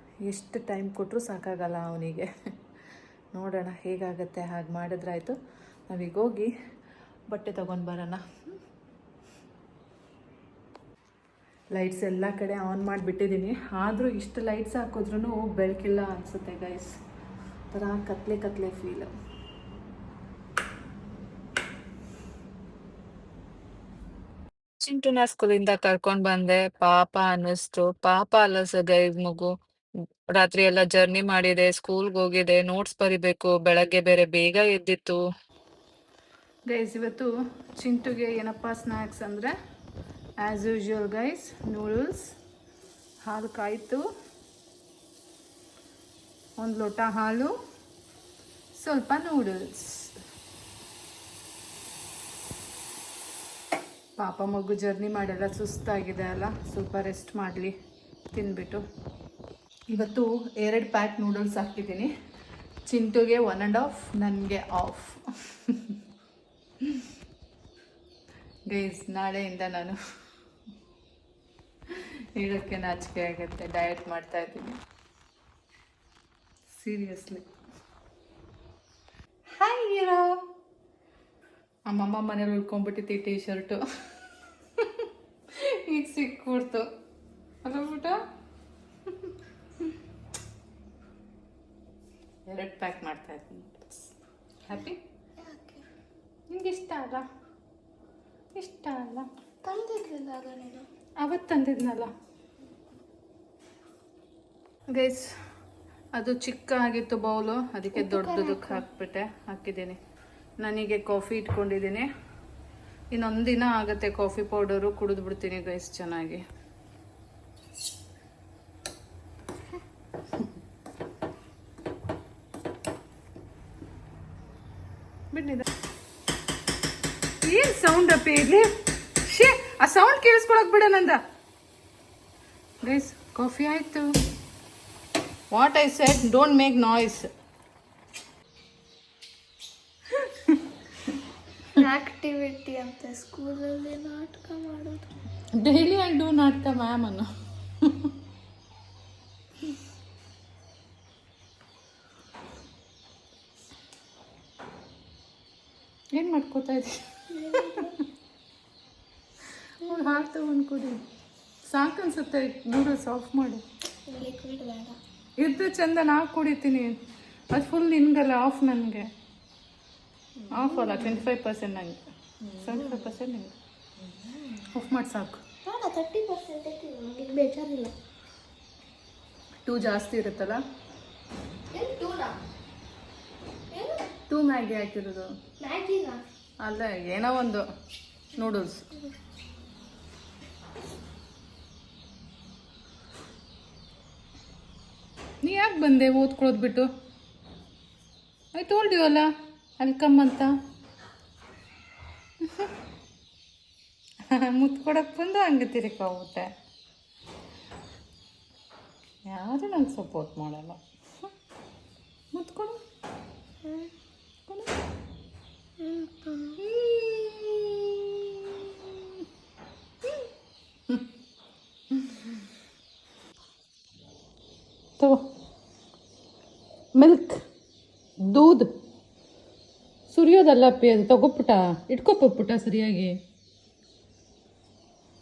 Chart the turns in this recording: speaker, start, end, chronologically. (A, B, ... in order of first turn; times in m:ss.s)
0:00.2-0:02.3 A
0:03.3-0:06.5 A
0:07.3-0:08.5 A
0:11.7-0:16.9 A
0:17.7-0:19.1 A
0:24.8-0:29.6 B
0:30.3-0:35.2 B
0:36.7-0:39.6 A
0:40.4-0:42.4 A
0:43.2-0:44.1 A
0:46.6-0:47.6 A
0:48.8-0:50.1 A
0:54.2-0:57.7 A
0:58.3-0:58.8 A
0:59.9-1:02.1 A
1:02.9-1:06.0 A
1:08.7-1:10.0 A
1:11.9-1:14.8 A
1:16.7-1:17.5 A
1:19.6-1:20.4 A
1:21.9-1:23.8 A
1:24.8-1:26.9 A
1:27.6-1:28.2 A
1:32.5-1:34.1 A
1:34.7-1:35.0 A
1:35.4-1:35.9 C
1:36.5-1:37.3 A
1:38.6-1:39.3 A
1:39.6-1:40.9 C
1:41.2-1:42.1 A
1:44.9-1:45.3 A
1:46.2-1:50.0 A
1:48.0-1:48.8 C
1:50.6-1:52.1 A
1:53.1-1:56.4 A
2:05.3-2:05.6 A
2:07.4-2:11.2 A
2:12.8-2:14.1 A
2:15.5-2:17.3 A
2:20.1-2:20.6 A
2:21.8-2:25.1 C
2:25.6-2:27.3 A
2:27.8-2:28.1 A
2:36.2-2:38.0 A
2:37.3-2:38.0 C
2:39.8-2:41.0 A
2:41.7-2:43.6 A
2:44.1-2:45.0 C
2:45.4-2:47.0 A
2:47.5-2:49.1 A
2:50.4-2:51.3 C
2:50.5-2:52.0 A
2:52.5-2:53.1 C
2:52.6-2:53.5 A
2:54.1-2:54.6 C
2:54.7-2:55.4 A
2:55.6-2:57.9 C
2:59.7-3:00.6 A
3:01.7-3:02.4 C
3:03.7-3:04.1 C
3:04.3-3:05.3 A
3:05.6-3:06.2 C
3:06.6-3:07.6 A
3:08.3-3:08.9 A
3:15.4-3:16.9 A
3:18.5-3:19.3 A
3:19.8-3:20.5 A
3:24.3-3:26.5 A
3:29.3-3:30.8 A
3:32.3-3:32.8 A
3:33.6-3:33.9 C
3:35.8-3:36.6 C
3:36.6-3:39.1 A
3:45.0-3:45.2 A
3:47.0-3:47.4 A
3:48.2-3:48.7 A
3:50.1-3:53.2 A